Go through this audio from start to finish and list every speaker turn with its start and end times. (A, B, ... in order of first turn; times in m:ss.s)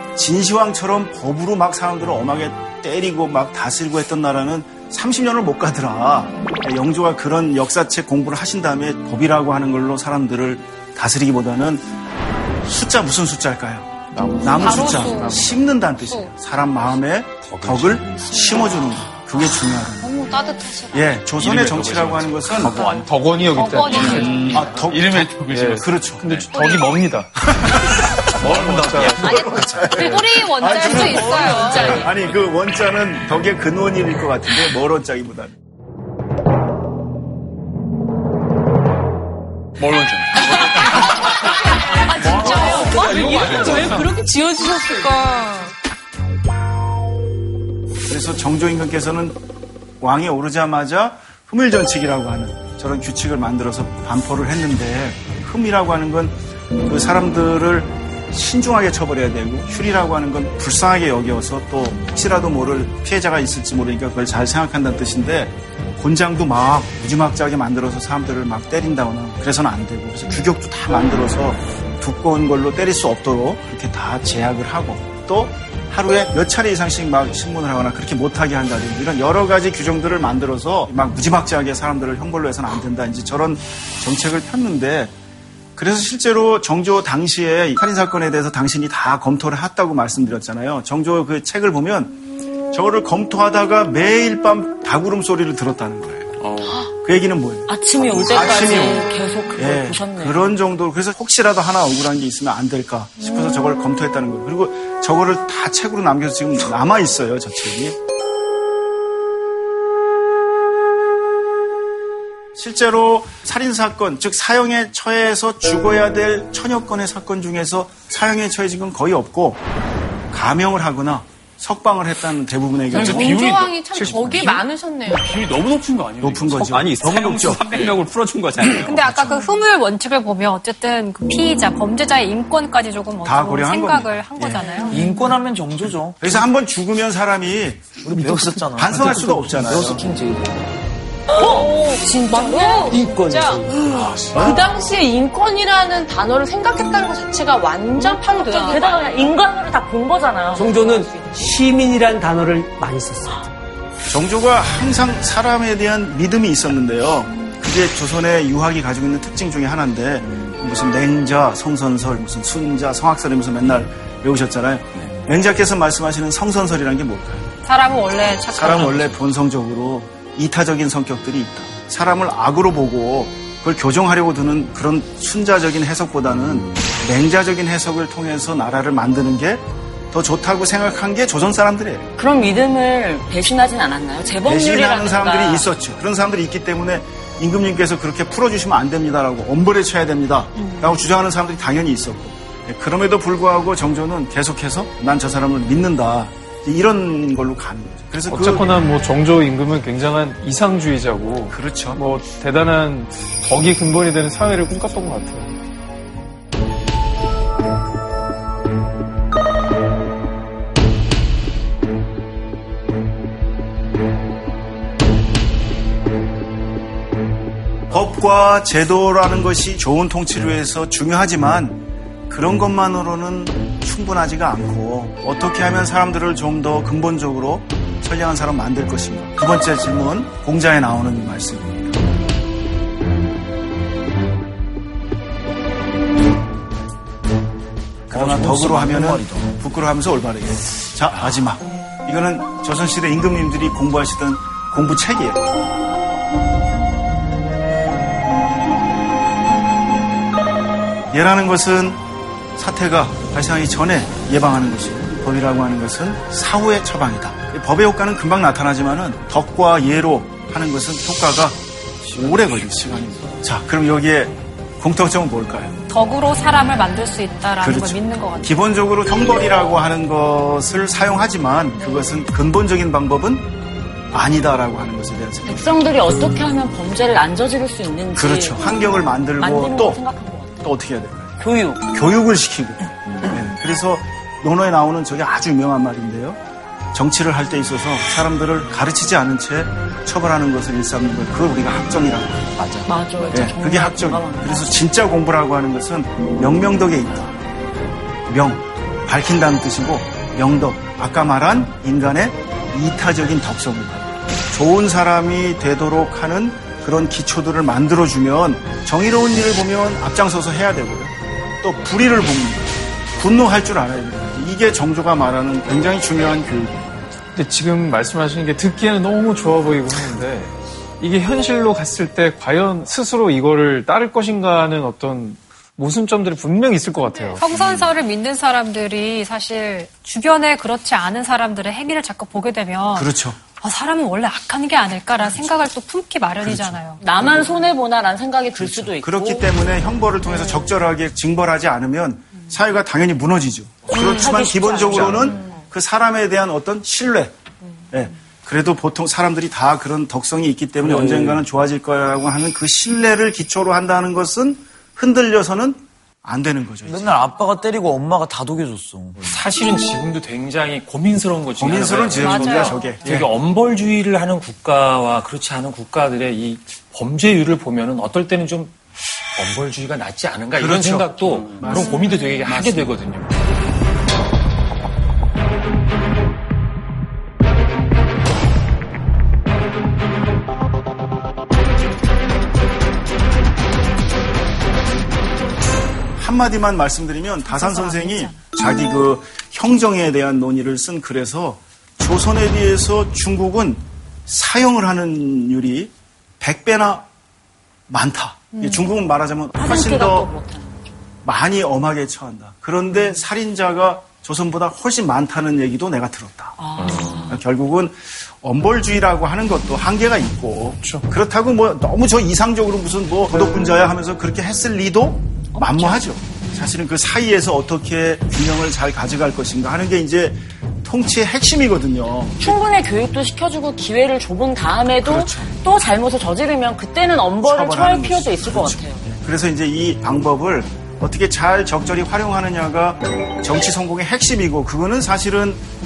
0:00.2-0:11.9 A
0:12.6-0:20.2 A
0:14.1-0:15.6 B
0:14.6-0:15.4 C
0:17.6-0:18.0 D
0:18.4-0:18.8 E
0:18.5-0:18.9 C
0:19.5-0:21.3 E
0:20.9-0:23.1 A
0:21.3-0:26.7 F
0:22.6-0:24.8 B
0:23.6-0:24.3 E
0:23.7-0:24.2 C
0:24.1-0:26.2 A
0:25.4-0:29.7 B
0:26.5-0:27.0 C
0:27.4-0:35.5 A
0:28.4-0:29.3 F
0:29.3-0:32.1 C
0:31.7-0:32.1 G
0:39.8-0:41.4 F
0:41.2-0:45.8 G
0:41.9-0:44.1 B
0:43.0-0:43.8 F
0:48.1-0:49.4 A
0:50.0-1:25.1 A
1:25.8-1:32.2 A
1:32.7-1:36.4 A
1:36.4-1:36.9 F
1:37.0-1:48.0 A
1:37.7-1:40.5 H
1:38.3-1:39.0 F
1:43.2-1:44.0 G
1:52.6-1:59.6 A
2:00.3-2:03.5 A
2:02.9-2:08.0 F
2:03.0-2:05.2 G
2:06.2-2:07.9 A
2:06.6-2:09.5 I
2:08.7-2:15.0 C
2:08.9-2:09.4 A
2:13.2-2:14.8 A
2:14.6-2:15.3 G
2:14.9-2:16.4 J
2:16.2-2:20.0 A
2:18.0-2:20.8 J
2:21.3-2:22.6 H
2:21.3-2:29.4 G
2:22.3-2:22.9 E
2:23.1-2:23.7 J
2:23.9-2:24.3 F
2:28.2-2:28.8 E
2:28.5-2:30.7 H
2:30.6-2:31.5 G
2:30.6-2:33.3 K
2:34.1-2:47.5 A
2:47.7-2:49.2 C
2:48.5-3:02.1 A
3:02.2-3:05.7 H
3:04.4-3:18.7 A
3:10.6-3:11.0 C
3:18.3-3:25.6 B
3:21.5-3:22.0 A
3:37.9-3:52.0 A
3:58.1-3:59.5 J
3:58.1-4:05.4 A
4:11.1-4:12.0 A
4:12.6-4:25.8 A
4:25.9-4:28.6 C
4:27.6-4:33.5 A
4:31.8-4:32.2 G
4:34.1-4:35.9 A
4:35.5-4:40.6 H
4:38.2-4:40.0 A
4:40.6-4:41.4 A
4:41.4-4:41.9 H
4:41.9-4:46.4 A
4:46.9-4:57.3 A
4:52.9-4:54.7 H
4:58.3-5:17.0 A
5:17.4-5:27.5 B
5:27.0-5:27.4 G
5:27.4-5:37.0 C
5:32.9-5:33.4 A
5:36.4-5:37.6 A
5:37.0-5:39.5 H
5:38.5-5:47.4 A
5:43.9-5:45.5 H
5:45.0-5:45.5 G
5:47.9-5:57.2 A
5:50.9-5:51.3 J
5:56.8-5:59.3 J
5:59.2-6:13.4 D
6:01.6-6:03.3 A
6:02.2-6:02.9 C
6:10.6-6:12.9 A
6:11.3-6:11.8 F
6:26.2-6:37.1 A
6:27.6-6:28.4 C
6:37.9-6:40.3 A
6:38.6-6:38.9 G
6:39.6-6:40.8 H
6:41.2-6:46.6 A
6:46.6-6:47.4 H
6:46.8-6:47.2 F
6:47.3-7:02.4 A
6:55.6-6:56.0 H
7:02.4-7:09.0 H
7:05.0-7:05.5 A
7:07.4-7:15.6 A